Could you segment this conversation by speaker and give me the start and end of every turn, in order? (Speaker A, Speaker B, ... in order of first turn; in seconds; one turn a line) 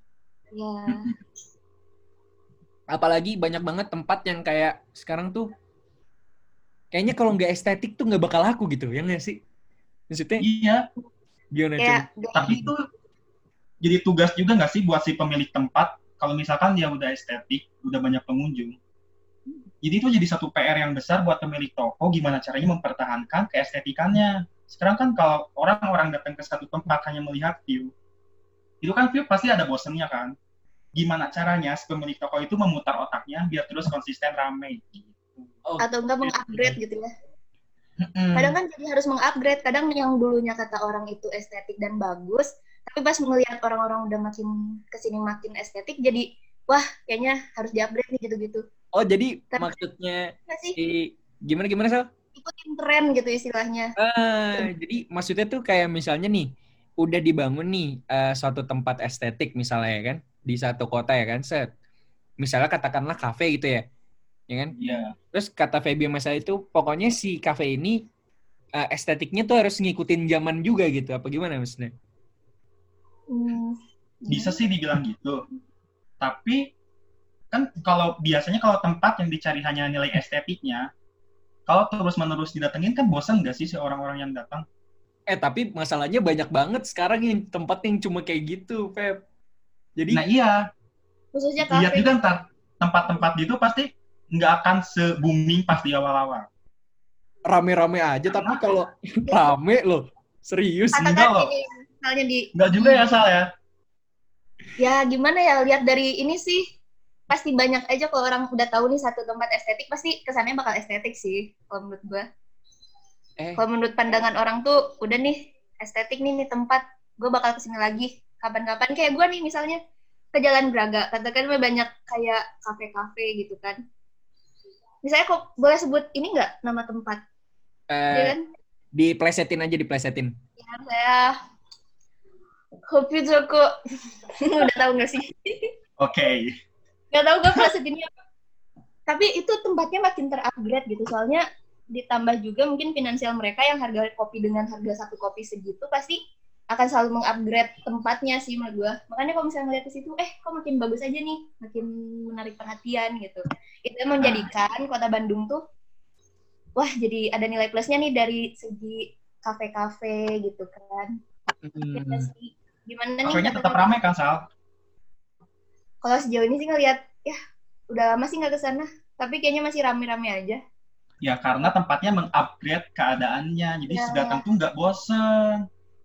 Speaker A: 0.5-1.1
Speaker B: 0.9-1.1
Speaker C: 2.9-5.5
Speaker C: 6.9-9.4
Speaker C: 10.1-10.4
Speaker B: 10.4-10.9
Speaker C: 11.5-12.6
Speaker A: 11.8-12.7
Speaker B: 12.3-12.9
Speaker B: 13.8-18.8
Speaker B: 19.8-27.9
Speaker B: 28.8-30.4
Speaker B: 30.9-35.5
Speaker C: 35.7-36.7
Speaker A: 35.8-37.1
Speaker B: 38.0-38.6
Speaker A: 38.4-48.6
Speaker C: 49.0-52.1
Speaker A: 50.5-50.8
Speaker A: 52.4-53.9
Speaker C: 54.0-61.7
Speaker C: 62.4-63.8
Speaker C: 64.5-64.7
Speaker A: 64.8-65.0
Speaker B: 64.8-65.1
Speaker C: 65.3-68.0
Speaker C: 68.8-71.9
Speaker A: 73.3-74.6
Speaker B: 74.3-75.4
Speaker B: 76.2-76.7
Speaker B: 77.5-80.9
Speaker B: 81.7-84.7
Speaker C: 85.3-89.2
Speaker C: 90.0-90.2
Speaker B: 90.1-90.7
Speaker A: 91.3-92.2
Speaker B: 91.7-96.5
Speaker C: 97.5-101.2
Speaker B: 98.3-98.6
Speaker A: 101.0-103.0
Speaker B: 101.1-101.5
Speaker B: 102.5-103.5
Speaker A: 104.8-106.7
Speaker A: 107.3-112.3
Speaker A: 113.6-119.8
Speaker A: 120.3-123.8
Speaker A: 125.0-127.2
Speaker C: 127.9-128.3
Speaker A: 128.1-128.4
Speaker C: 128.9-130.3
Speaker A: 130.6-131.4
Speaker A: 132.9-133.7
Speaker A: 134.4-135.7
Speaker B: 136.0-136.5
Speaker A: 137.1-138.1
Speaker A: 139.1-146.2
Speaker A: 146.7-155.6
Speaker B: 154.2-154.5
Speaker A: 156.8-161.2
Speaker C: 161.6-162.3
Speaker A: 161.9-164.0
Speaker B: 163.2-164.4
Speaker A: 166.0-167.4
Speaker A: 167.9-170.6
Speaker B: 171.2-175.6
Speaker A: 173.9-174.4